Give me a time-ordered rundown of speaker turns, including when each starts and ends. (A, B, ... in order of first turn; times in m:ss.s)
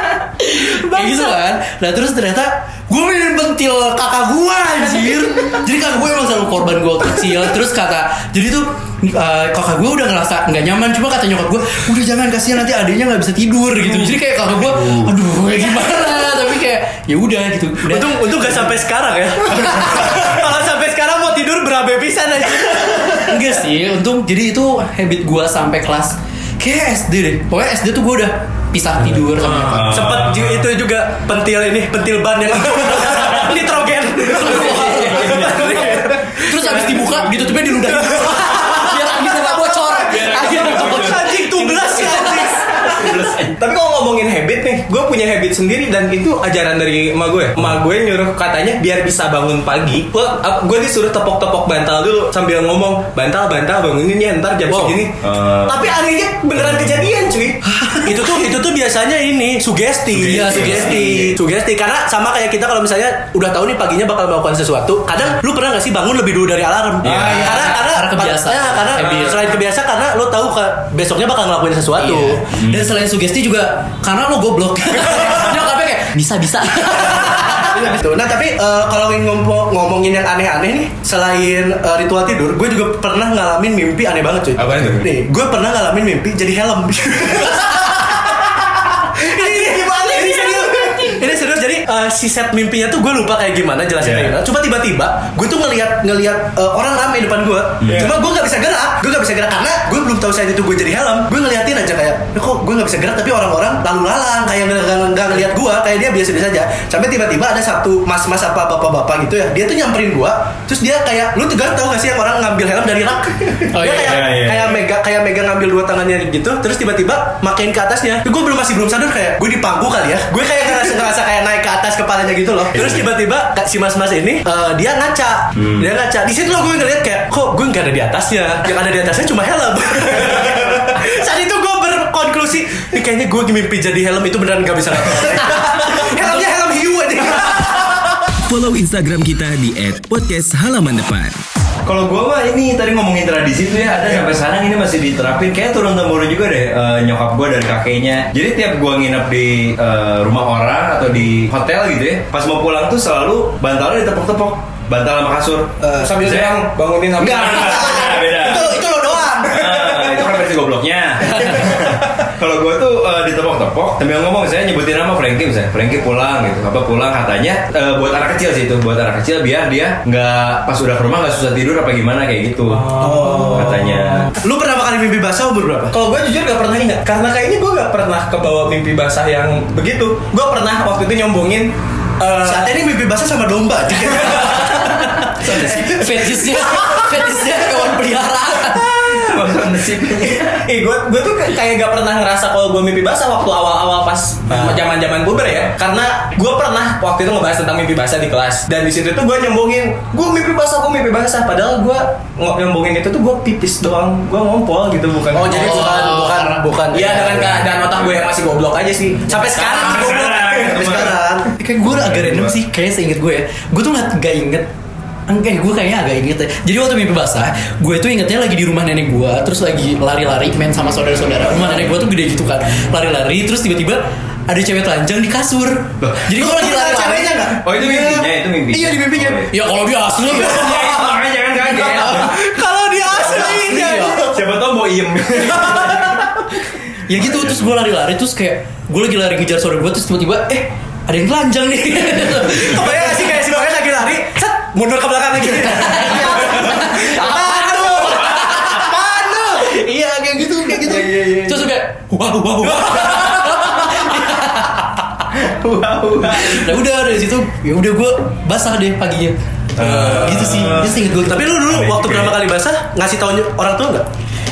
0:00.4-0:18.6 A
0:00.9-0:01.3 B
0:14.8-0:15.1 C
0:17.8-0:23.4 B
0:23.2-0:29.9 A
0:29.5-0:30.4 C
0:29.7-0:43.2 B
0:34.3-0:42.5 A
0:40.0-0:41.3 C
0:41.9-0:43.6 C
0:43.5-0:57.6 D
0:55.2-0:55.8 C
0:57.7-0:58.2 A
0:58.0-1:12.4 B
1:00.1-1:01.4 C
1:00.2-1:01.2 A
1:07.0-1:09.6 A
1:07.1-1:07.4 C
1:12.0-1:17.8 A
1:12.6-1:12.9 C
1:17.4-2:17.9 B
1:24.6-1:25.1 D
1:29.3-1:31.2 D
1:34.0-1:34.4 C
1:37.8-1:38.1 C
1:53.7-1:54.2 A
1:54.0-1:54.7 C
2:18.5-2:21.4 E
2:21.8-2:36.6 C
2:35.8-2:36.1 B
2:36.0-2:38.2 D
2:37.2-2:38.8 C
2:37.6-2:40.2 B
2:39.4-2:54.3 C
2:52.8-2:53.9 D
2:53.2-2:53.7 B
2:54.4-2:56.0 B
2:55.9-3:02.8 D
3:02.4-3:05.0 B
3:05.3-3:06.2 C
3:05.6-3:09.2 A
3:08.8-3:10.6 C
3:10.4-3:26.1 D
3:14.5-3:14.8 C
3:25.3-3:27.7 B
3:25.4-3:26.8 A
3:26.9-3:30.2 D
3:29.3-3:31.5 B
3:29.6-3:32.6 C
3:31.5-3:34.7 A
3:35.3-3:47.4 A
3:46.4-3:49.4 B
3:47.5-3:49.5 C
3:49.4-3:51.1 A
3:50.2-3:52.4 C
3:51.7-3:54.3 B
3:53.2-3:54.3 A
3:54.2-3:56.2 C
3:57.1-4:03.4 A
4:02.6-4:09.8 B
4:05.9-4:08.8 A
4:09.6-4:14.8 A
4:10.9-4:11.5 C
4:15.3-4:16.7 C
4:16.2-4:19.4 A
4:19.8-4:21.0 C
4:19.8-4:24.1 B
4:20.0-4:21.5 A
4:21.7-4:22.4 C